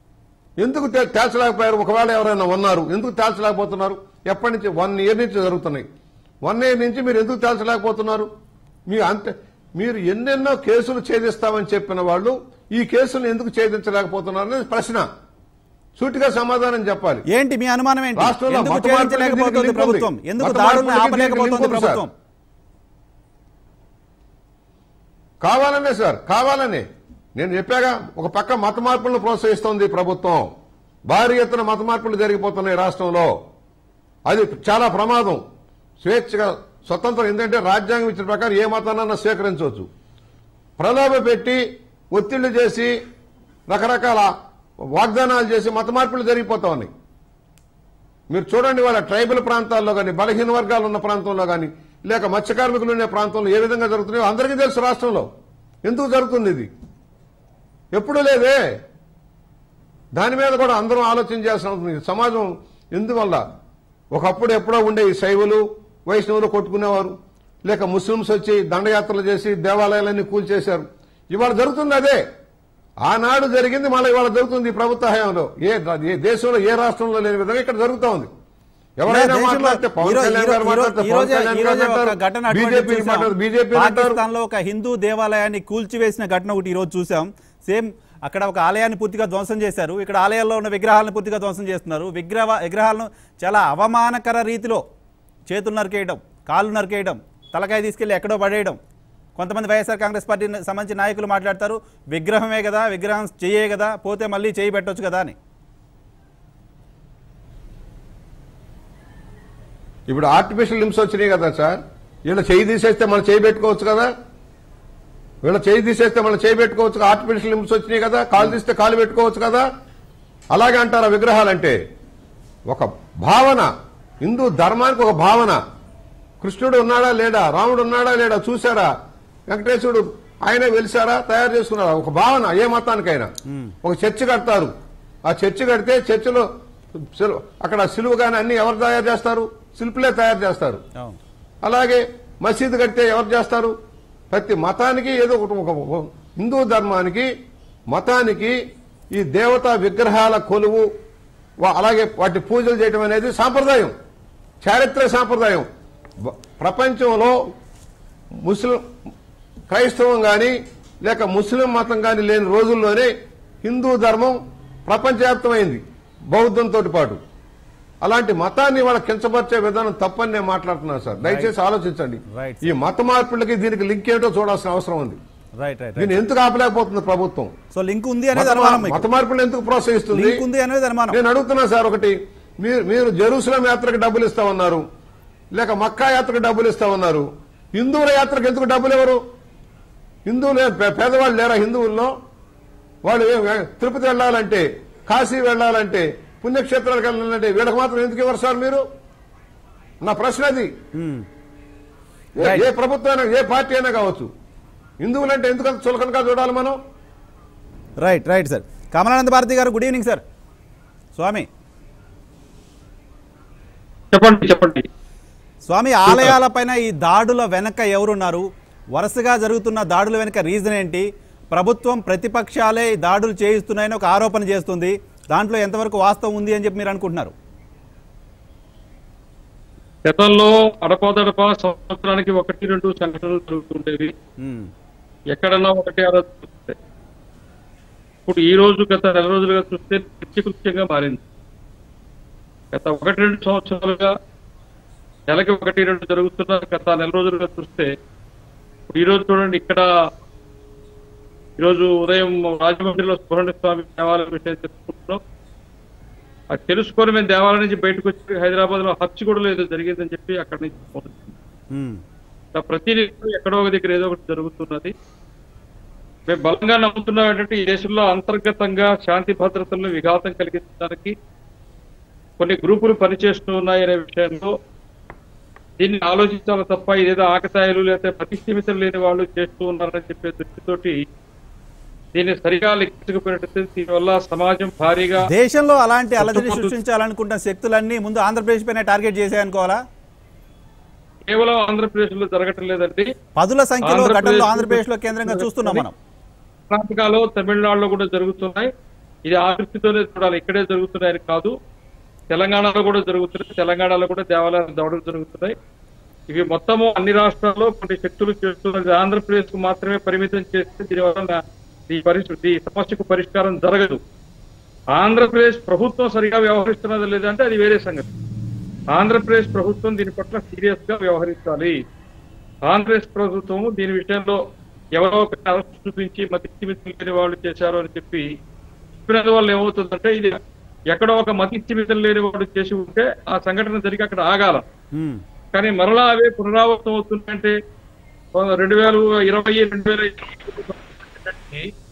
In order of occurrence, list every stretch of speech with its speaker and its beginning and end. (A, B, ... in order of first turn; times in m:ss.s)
0:00.6-0:05.9 A
0:06.4-0:08.3 A
0:08.9-0:15.1 A
0:16.0-0:17.2 A
0:17.3-0:22.1 B
0:18.2-0:22.0 A
0:25.4-0:30.5 A
0:31.1-0:33.3 A
0:34.3-0:35.4 A
0:36.0-0:39.9 A
0:40.8-0:43.0 A
0:43.7-0:44.3 A
0:44.9-0:46.9 A
0:48.3-0:55.3 A
0:55.8-0:56.7 A
0:57.9-0:58.6 A
1:00.1-1:03.4 A
1:04.1-1:12.2 A
1:13.0-1:18.3 A
1:19.0-1:24.2 A
1:19.1-1:34.8 B
1:35.5-1:38.8 B
1:39.4-1:45.4 B
1:50.1-1:54.1 A
1:55.4-1:59.7 A
2:00.5-2:01.8 A
2:02.7-2:03.7 A
2:04.2-2:05.6 A
2:06.4-2:08.9 A
2:09.5-2:13.3 A
2:13.5-2:13.7 B
2:13.8-2:14.7 A
2:15.2-2:16.5 A
2:17.0-2:20.8 A
2:21.6-2:23.8 A
2:24.3-2:27.3 A
2:27.9-2:28.6 A
2:29.1-2:30.9 A
2:31.6-2:33.9 A
2:34.6-2:35.7 A
2:36.2-2:37.4 A
2:38.4-2:38.8 A
2:39.7-2:43.1 A
2:43.6-2:47.2 A
2:48.0-2:55.2 A
2:51.2-2:51.5 B
2:52.3-2:52.8 B
2:55.6-2:56.2 B
2:56.0-2:57.5 A
2:57.7-2:59.1 B
2:58.3-3:00.4 A
3:00.1-3:01.2 B
3:01.1-3:04.8 A
3:05.5-3:09.2 A
3:10.3-3:12.1 A
3:13.0-3:18.8 A
3:20.0-3:20.7 A
3:20.9-3:21.3 B
3:22.4-3:24.3 A
3:22.4-3:22.7 B
3:25.0-3:26.8 A
3:28.0-3:30.2 B
3:31.2-3:31.5 B
3:34.1-3:34.9 C
3:35.6-3:47.3 B
3:50.0-3:54.1 C
3:54.4-3:54.7 B
3:55.3-3:56.8 C
3:58.3-4:01.2 C
4:02.7-4:04.1 C
4:05.3-4:07.9 C
4:08.9-4:09.9 C
4:11.6-4:15.2 C
4:16.5-4:21.3 C
4:21.7-4:22.0 B
4:22.5-4:24.9 C
4:26.3-4:31.1 C
4:32.4-4:34.5 C
4:35.8-4:41.0 C
4:42.1-4:45.3 C
4:45.2-4:49.8 B
4:46.2-4:46.7 C
4:51.3-4:53.1 C
4:53.4-4:55.9 B
4:53.8-4:55.8 C
4:56.7-4:58.7 C
4:59.2-5:01.6 C
5:02.3-5:05.5 C
5:06.3-5:14.0 C
5:14.9-5:18.0 C
5:18.9-5:21.8 C
5:22.6-5:24.4 C
5:24.9-5:28.3 C
5:29.1-5:30.4 C
5:30.9-5:34.6 C
5:34.9-5:35.2 B
5:35.5-5:37.6 C
5:38.3-5:41.7 C